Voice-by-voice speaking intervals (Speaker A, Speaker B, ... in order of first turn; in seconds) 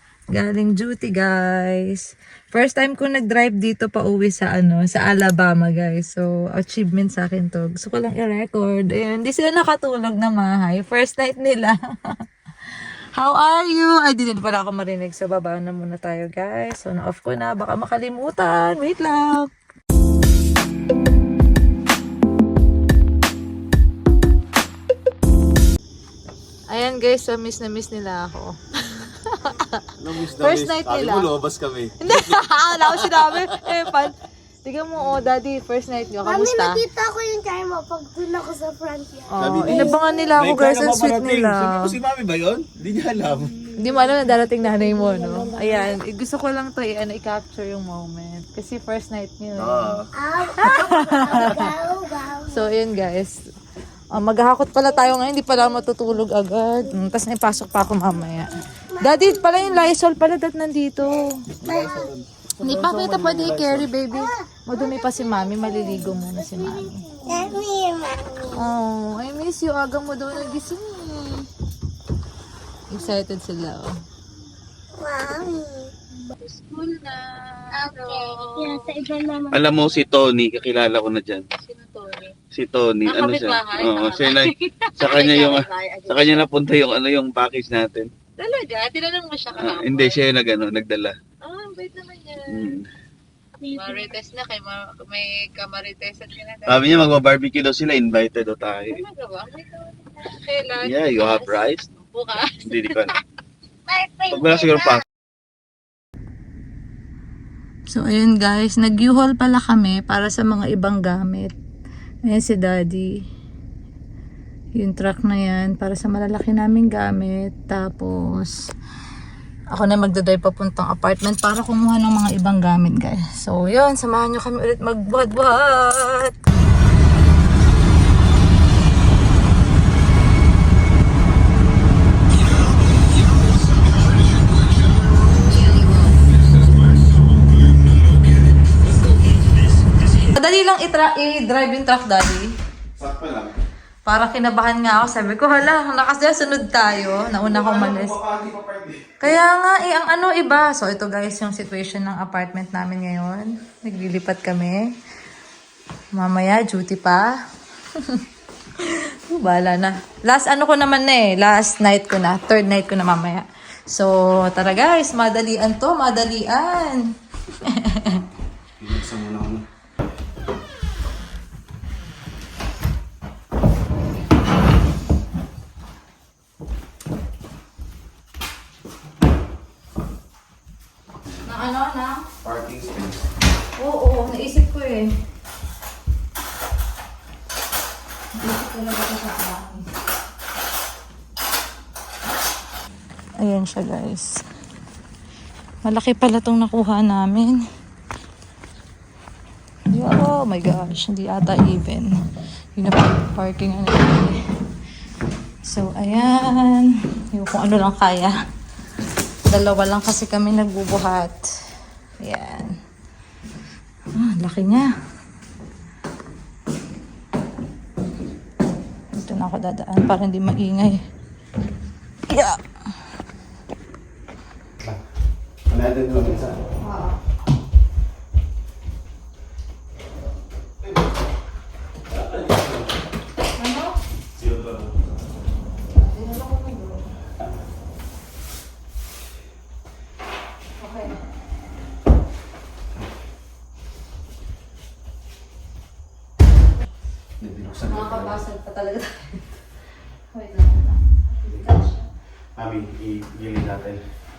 Speaker A: 0.3-12.2, 13.2-19.5, 26.7-31.3, 32.0-36.8, 39.3-42.0, 43.7-51.7, 52.5-53.4, 54.1-61.5, 62.6-67.5, 68.5-71.5, 72.9-73.9, 76.3-79.0, 81.6-82.3, 83.1-86.5, 88.4-90.2, 91.4-92.8, 93.7-97.1, 98.9-103.1, 107.9-111.5, 112.3-113.1, 114.8-118.6, 119.7-126.3, 140.2-142.5, 144.1-148.2, 149.2-154.9, 156.1-157.4, 158.0-158.2, 158.8-168.2, 181.4-182.3, 183.8-185.1, 188.3-189.9, 193.4-194.4, 195.8-197.6, 199.9-202.1, 202.8-204.4, 205.7-208.3, 209.5-211.5, 212.2-212.8, 214.2-214.9, 219.2-221.0, 222.3-222.6, 226.8-227.2, 233.6-234.0, 235.9-237.1, 240.8-241.2, 247.9-249.5, 250.3-252.0
Speaker B: 30.0-33.6, 39.4-43.6, 49.6-50.1, 61.6-63.9, 79.5-81.5, 82.5-88.1, 89.6-91.2, 92.5-92.9, 96.7-99.0, 100.8-101.9, 102.6-103.2, 104.3-105.0, 143.0-143.6, 147.4-149.3, 168.8-169.6, 182.4-183.2, 225.7-226.6, 232.1-232.9, 234.4-234.9, 247.4-248.4, 251.5-251.8, 252.6-254.0
Speaker C: 36.2-40.3, 44.7-46.0, 50.1-52.6, 59.1-59.5, 61.6-62.1, 64.8-68.6, 75.0-75.9, 77.8-79.6, 93.6-94.1, 103.9-105.0